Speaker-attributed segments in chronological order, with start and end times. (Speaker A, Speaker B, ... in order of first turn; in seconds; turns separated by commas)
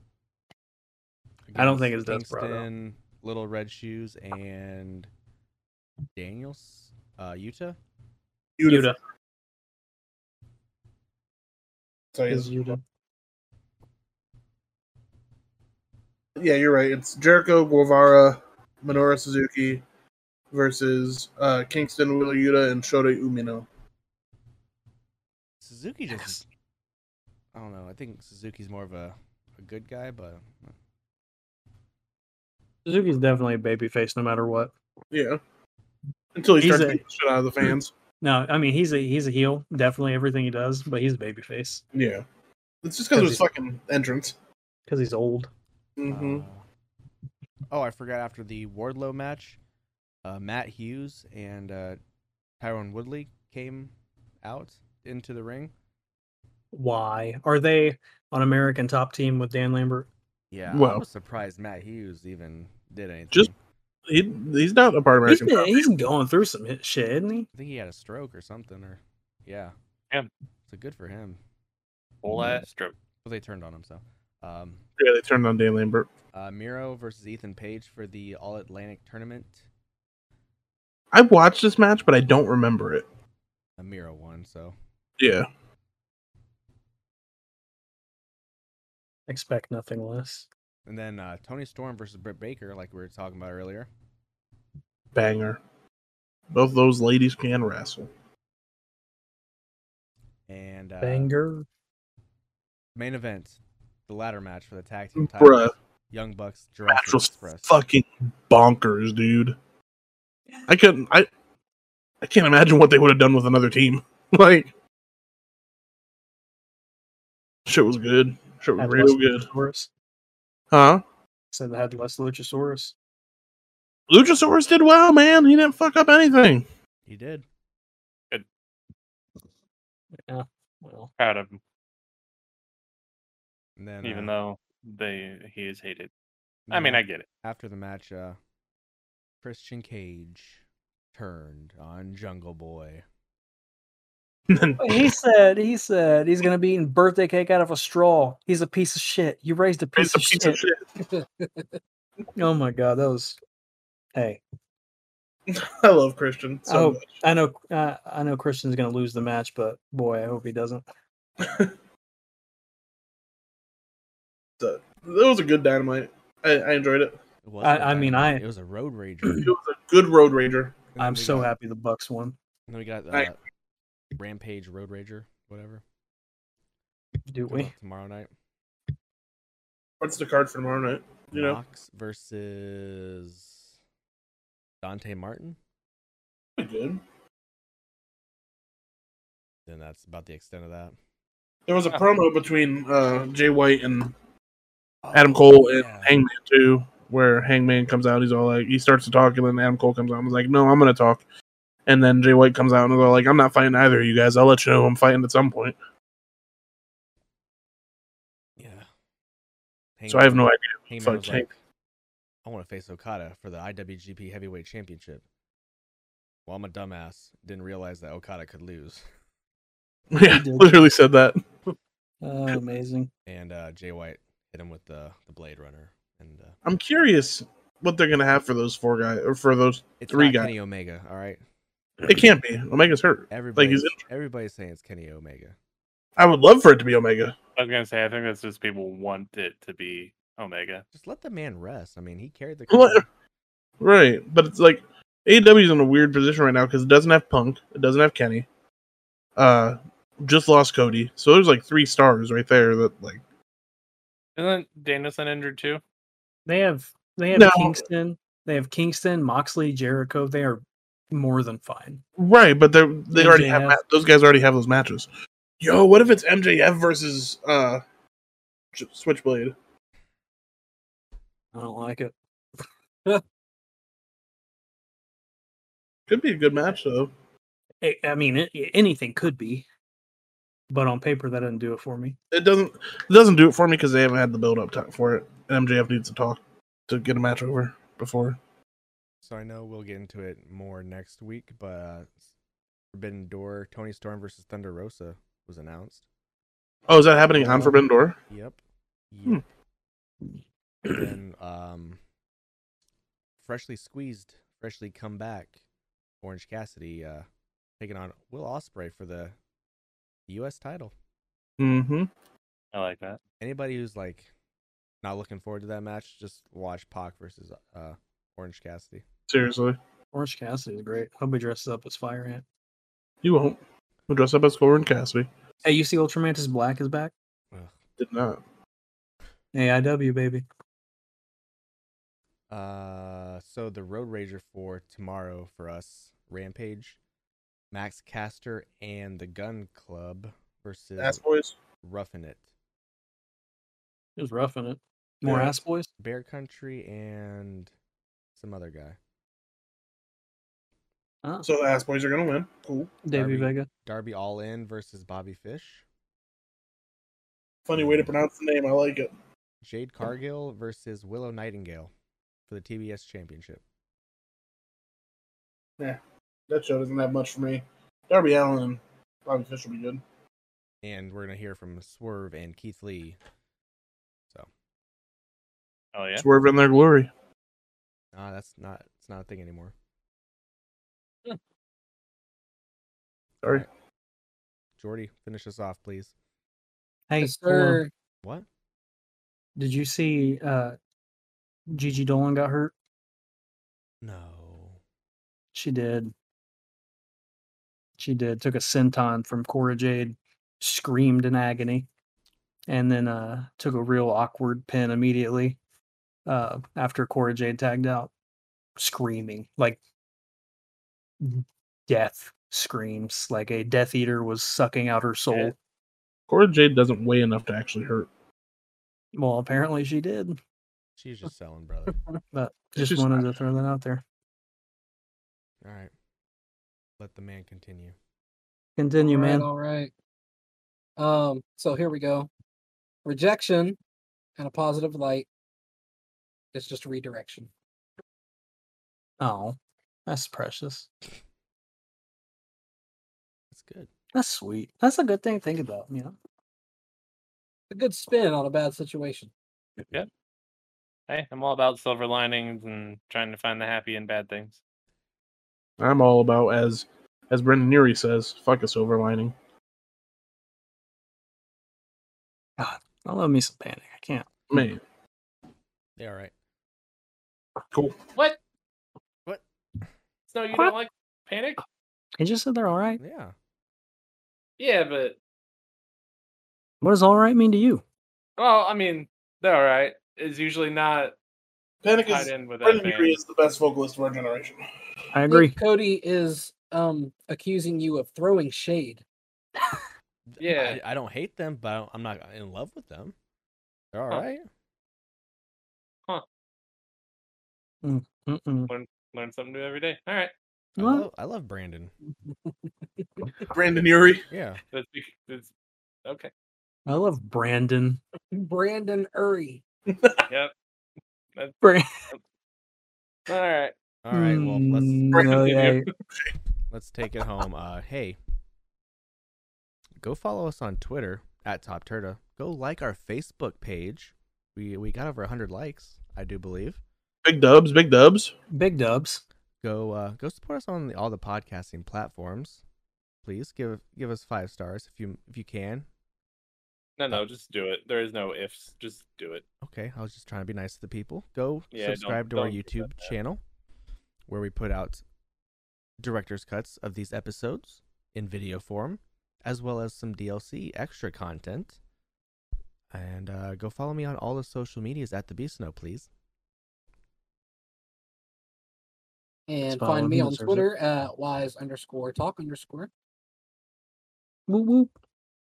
Speaker A: 1.5-5.1, Speaker B: 1.6-2.7, Speaker A: 6.2-7.8, Speaker C: 8.6-8.9, Speaker B: 8.7-9.0, Speaker C: 12.1-12.8, Speaker B: 12.3-12.8, Speaker C: 16.4-19.8, Speaker C: 20.5-23.7, Speaker A: 25.6-26.4, Speaker B: 26.1-26.4, Speaker A: 27.5-30.7, Speaker B: 32.9-34.7, Speaker C: 35.1-35.4, Speaker C: 36.4-37.9, Speaker B: 36.6-37.0, Speaker B: 38.2-41.8, Speaker C: 41.9-42.2, Speaker C: 42.8-44.3, Speaker B: 43.1-43.4, Speaker B: 44.9-45.5, Speaker C: 46.0-46.5, Speaker A: 46.1-46.6, Speaker A: 47.7-49.6, Speaker A: 50.2-52.0, Speaker A: 52.6-55.7, Speaker B: 56.7-60.1, Speaker A: 60.5-63.5, Speaker C: 60.7-61.0, Speaker C: 64.1-65.9, Speaker B: 65.3-67.5, Speaker A: 67.5-69.8, Speaker A: 70.7-71.4, Speaker D: 72.2-73.0, Speaker A: 73.2-74.8, Speaker C: 75.0-76.1, Speaker A: 76.3-79.6, Speaker C: 81.1-83.0, Speaker A: 83.8-84.8, Speaker C: 85.2-85.5, Speaker B: 89.3-90.5, Speaker A: 90.9-93.9, Speaker C: 95.1-95.6, Speaker C: 96.5-98.1, Speaker A: 100.5-101.3, Speaker B: 101.0-101.7, Speaker A: 103.0-107.7, Speaker C: 105.2-105.7, Speaker C: 106.9-109.6, Speaker C: 110.7-111.3, Speaker C: 112.2-114.7, Speaker C: 117.7-119.5, Speaker B: 118.8-119.9, Speaker C: 120.7-121.0, Speaker B: 121.5-123.0, Speaker C: 124.1-126.7, Speaker A: 127.1-127.5, Speaker B: 130.3-131.1, Speaker D: 131.2-131.6, Speaker A: 133.8-134.3, Speaker D: 134.0-136.1, Speaker A: 136.7-138.4, Speaker D: 136.7-137.3, Speaker A: 139.4-140.6, Speaker A: 141.1-143.1, Speaker C: 144.5-145.1, Speaker B: 144.8-150.6, Speaker C: 150.0-150.8, Speaker E: 151.0-151.8, Speaker B: 152.4-153.4, Speaker B: 154.2-154.4, Speaker C: 155.5-157.1, Speaker B: 156.7-160.8, Speaker C: 161.4-161.7, Speaker C: 164.6-167.2, Speaker A: 167.4-169.5, Speaker B: 167.6-168.4, Speaker C: 169.4-170.9, Speaker A: 170.9-171.5, Speaker B: 171.0-172.3, Speaker A: 172.7-173.4, Speaker A: 174.2-175.8, Speaker B: 177.3-177.7, Speaker A: 177.5-178.3, Speaker C: 180.0-181.6, Speaker A: 181.3-183.7, Speaker A: 184.8-185.6, Speaker C: 186.6-187.0, Speaker A: 189.7-191.0, Speaker C: 191.7-194.1, Speaker A: 195.0-196.2, Speaker C: 195.1-201.2, Speaker C: 201.9-205.8, Speaker A: 208.6-208.9, Speaker A: 210.0-211.6, Speaker C: 210.1-211.5, Speaker A: 212.4-215.2, Speaker A: 216.5-219.1, Speaker C: 220.1-221.4, Speaker B: 220.2-220.9, Speaker B: 222.2-223.1, Speaker A: 223.3-226.6, Speaker C: 226.7-230.5, Speaker A: 230.0-231.4, Speaker C: 232.0-234.0, Speaker A: 233.3-235.6, Speaker C: 236.2-237.3, Speaker D: 237.6-240.8, Speaker A: 240.9-243.1, Speaker C: 242.7-243.1, Speaker C: 243.8-248.5, Speaker C: 249.4-253.2, Speaker D: 254.4-255.8, Speaker B: 256.5-262.0, Speaker C: 257.3-257.8, Speaker C: 262.2-265.1, Speaker B: 263.1-263.8, Speaker C: 265.6-267.8, Speaker C: 268.7-269.6, Speaker B: 271.5-272.1, Speaker C: 276.1-277.1, Speaker B: 277.8-279.6, Speaker B: 280.7-282.2, Speaker C: 282.3-288.4, Speaker A: 289.2-292.2, Speaker A: 292.9-296.1, Speaker C: 296.9-298.2, Speaker B: 297.4-297.8, Speaker A: 298.3-298.6, Speaker A: 299.1-299.4, Speaker A: 300.9-302.0, Speaker A: 303.4-305.6, Speaker A: 306.2-307.3, Speaker A: 307.8-309.4, Speaker A: 310.3-310.9, Speaker C: 311.6-312.1, Speaker D: 312.7-313.2, Speaker A: 313.4-314.3, Speaker A: 315.0-319.0, Speaker C: 319.3-319.8, Speaker B: 320.1-322.4, Speaker C: 323.2-325.3, Speaker B: 325.6-327.1, Speaker A: 327.5-327.8, Speaker C: 328.0-328.4, Speaker B: 329.5-330.4, Speaker A: 332.5-337.0, Speaker A: 337.7-341.2, Speaker C: 341.0-341.6, Speaker A: 341.8-342.4, Speaker B: 344.2-345.9, Speaker C: 345.2-345.6, Speaker A: 346.0-347.7, Speaker A: 348.4-349.0, Speaker C: 351.4-353.0, Speaker B: 353.1-353.7, Speaker A: 353.1-355.8, Speaker C: 357.7-359.1, Speaker A: 359.6-361.9, Speaker A: 362.5-363.6, Speaker C: 365.8-370.0, Speaker A: 370.8-373.2, Speaker D: 375.9-376.3, Speaker C: 376.2-377.1, Speaker A: 378.1-379.7, Speaker A: 384.8-386.1, Speaker B: 387.1-387.8, Speaker E: 387.2-387.9, Speaker B: 389.6-390.8, Speaker B: 391.7-392.7, Speaker A: 394.0-394.8, Speaker B: 395.5-396.1, Speaker B: 398.0-401.9, Speaker B: 402.7-405.6, Speaker B: 406.3-408.1, Speaker B: 408.8-409.8, Speaker B: 411.2-415.6, Speaker C: 416.3-418.1, Speaker B: 419.1-420.4, Speaker A: 421.0-422.0, Speaker B: 422.3-424.0, Speaker C: 422.8-423.2, Speaker A: 425.6-425.9, Speaker A: 427.0-428.0, Speaker B: 428.8-429.5, Speaker E: 429.0-429.9, Speaker E: 431.0-432.3, Speaker E: 433.1-433.8, Speaker E: 434.4-435.3, Speaker E: 436.5-437.5, Speaker B: 439.2-440.9, Speaker A: 443.5-443.9, Speaker B: 444.1-446.2, Speaker E: 447.7-449.3, Speaker D: 451.1-454.6, Speaker C: 455.8-459.4, Speaker B: 462.6-464.8, Speaker C: 464.5-464.8, Speaker A: 466.0-466.3, Speaker D: 470.3-471.6, Speaker B: 472.2-473.0, Speaker A: 473.0-473.3, Speaker D: 474.6-475.2, Speaker B: 476.8-477.8, Speaker D: 478.4-481.1, Speaker C: 481.8-484.6, Speaker D: 482.1-483.2, Speaker B: 485.1-485.6, Speaker E: 485.3-489.0, Speaker A: 490.3-493.1, Speaker D: 490.4-490.8, Speaker A: 493.9-494.4, Speaker B: 497.8-498.7, Speaker D: 498.7-500.3, Speaker A: 500.8-501.9, Speaker B: 500.8-501.1, Speaker E: 503.0-503.4, Speaker C: 503.5-504.2, Speaker A: 504.3-504.6, Speaker D: 504.7-505.5, Speaker B: 506.9-508.0, Speaker E: 508.3-509.6, Speaker C: 509.9-510.3, Speaker D: 511.4-512.2, Speaker B: 511.6-511.9, Speaker D: 513.3-513.7, Speaker A: 514.0-515.3, Speaker B: 514.1-515.9, Speaker C: 515.1-516.3, Speaker A: 516.7-518.2, Speaker A: 520.0-526.8, Speaker C: 527.2-528.3, Speaker B: 528.5-529.2, Speaker A: 529.6-532.6, Speaker A: 533.2-535.9, Speaker D: 537.0-539.4, Speaker A: 539.6-543.4, Speaker D: 541.7-543.1, Speaker A: 544.3-545.0, Speaker A: 546.0-551.8, Speaker A: 552.9-556.1, Speaker E: 559.5-562.9, Speaker B: 559.7-560.7, Speaker B: 564.5-564.9